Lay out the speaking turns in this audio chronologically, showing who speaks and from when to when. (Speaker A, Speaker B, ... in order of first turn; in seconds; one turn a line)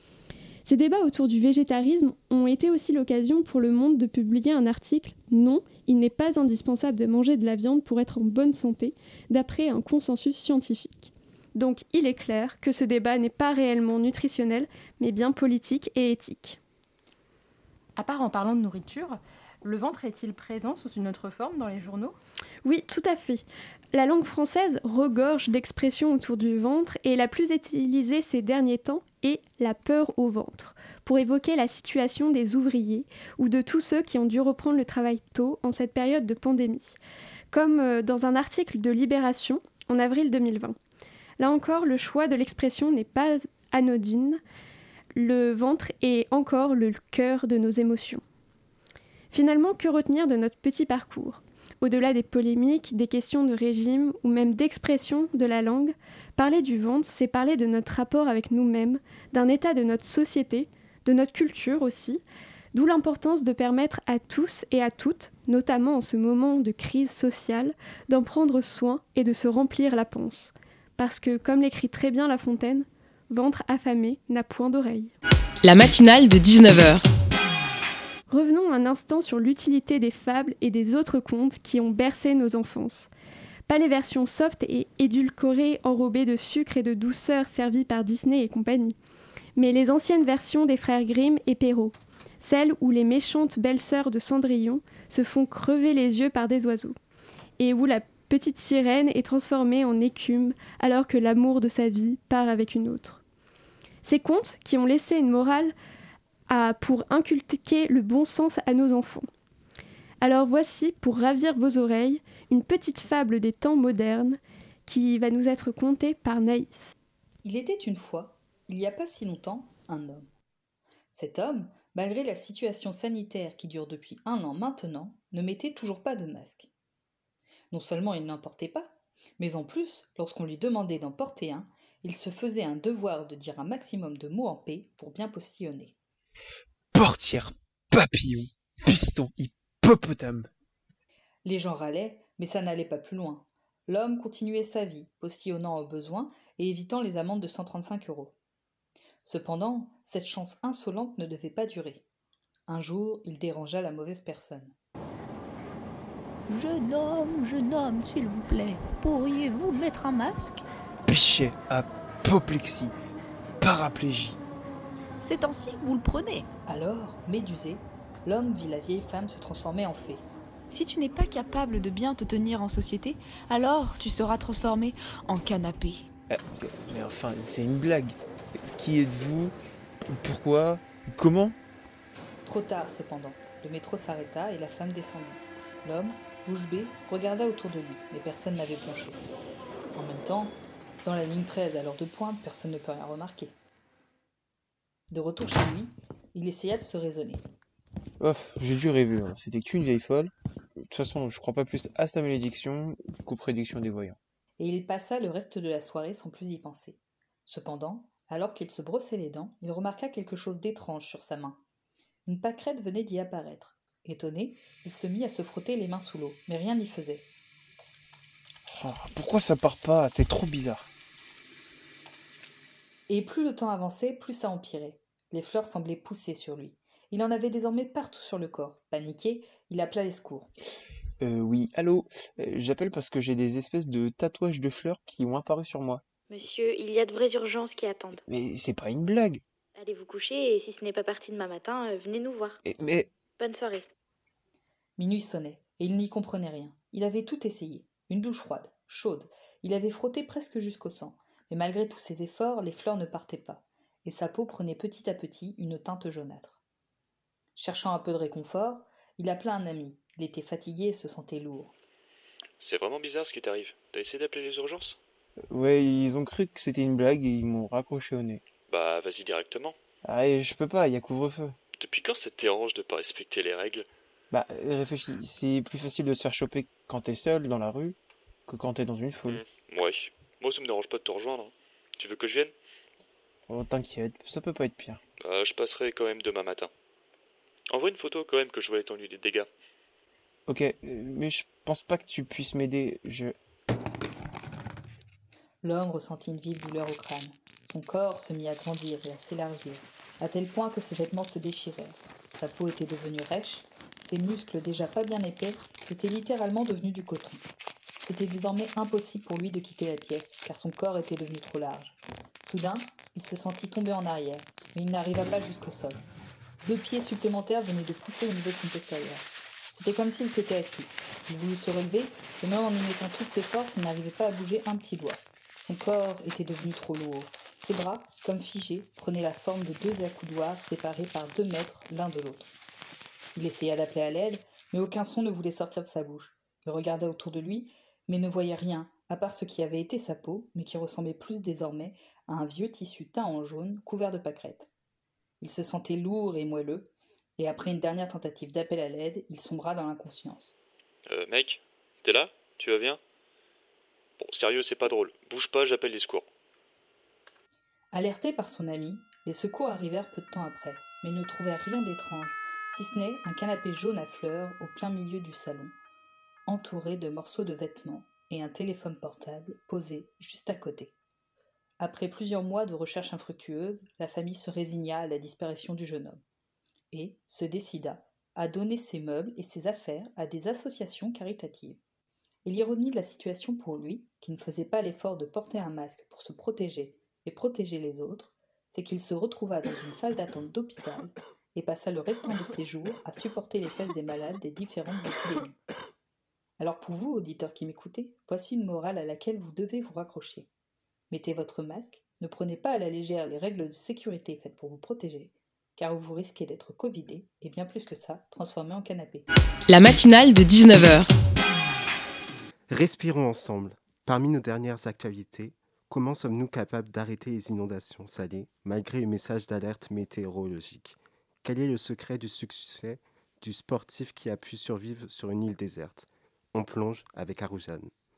Speaker A: 0.6-16.6
Speaker B: 18.0-22.1
Speaker A: 22.6-37.0
Speaker A: 37.5-40.8
Speaker A: 41.4-44.4
Speaker A: 45.1-48.2
Speaker A: 49.3-62.2
Speaker A: 62.7-75.1
Speaker C: 75.6-77.0
Speaker A: 78.3-83.1
Speaker A: 83.7-89.0
Speaker A: 89.6-97.0
Speaker A: 97.6-103.2
Speaker A: 104.0-105.7
Speaker A: 106.5-109.3
Speaker A: 110.2-116.9
Speaker D: 117.4-120.3
Speaker D: 121.1-126.7
Speaker D: 127.7-135.9
Speaker E: 136.9-140.5
Speaker D: 141.4-148.3
Speaker D: 149.2-152.0
Speaker D: 152.7-154.7
Speaker F: 156.5-160.6
Speaker E: 161.1-162.9
Speaker E: 163.6-164.4
Speaker F: 165.2-166.4
Speaker D: 166.7-170.2
Speaker F: 170.7-176.1
Speaker E: 176.3-179.5
Speaker E: 180.1-181.6
Speaker D: 182.4-189.2
Speaker D: 189.9-193.5
Speaker D: 195.1-197.4
Speaker E: 198.2-200.3
Speaker E: 200.9-204.2
Speaker D: 204.6-211.6
Speaker D: 212.2-217.2
Speaker E: 218.7-220.9
Speaker D: 223.1-230.5
Speaker E: 231.2-236.0
Speaker G: 236.3-238.2
Speaker E: 238.2-239.4
Speaker G: 239.8-242.6
Speaker E: 242.6-243.1
Speaker G: 243.4-243.8
Speaker D: 245.0-256.6
Speaker D: 257.6-261.7
Speaker H: 262.6-265.0
Speaker E: 265.5-268.5
Speaker H: 268.6-269.8
Speaker E: 270.0-271.6
Speaker H: 271.8-273.9
Speaker E: 274.3-279.4
Speaker H: 279.3-282.5
Speaker E: 283.5-285.0
Speaker H: 285.2-286.7
Speaker H: 287.7-289.5
Speaker E: 290.5-293.4
Speaker D: 295.6-307.5
Speaker D: 308.0-316.0
Speaker D: 316.6-332.5
Speaker D: 333.3-344.7
Speaker D: 345.4-350.5
Speaker H: 351.1-353.0
Speaker H: 354.2-356.3
Speaker D: 357.9-365.7
Speaker D: 366.4-370.9
Speaker D: 371.8-376.2
Speaker D: 376.9-381.8
Speaker D: 382.4-395.5
Speaker D: 396.6-400.5
Speaker D: 401.1-409.2
Speaker C: 409.7-411.1
Speaker I: 412.7-427.9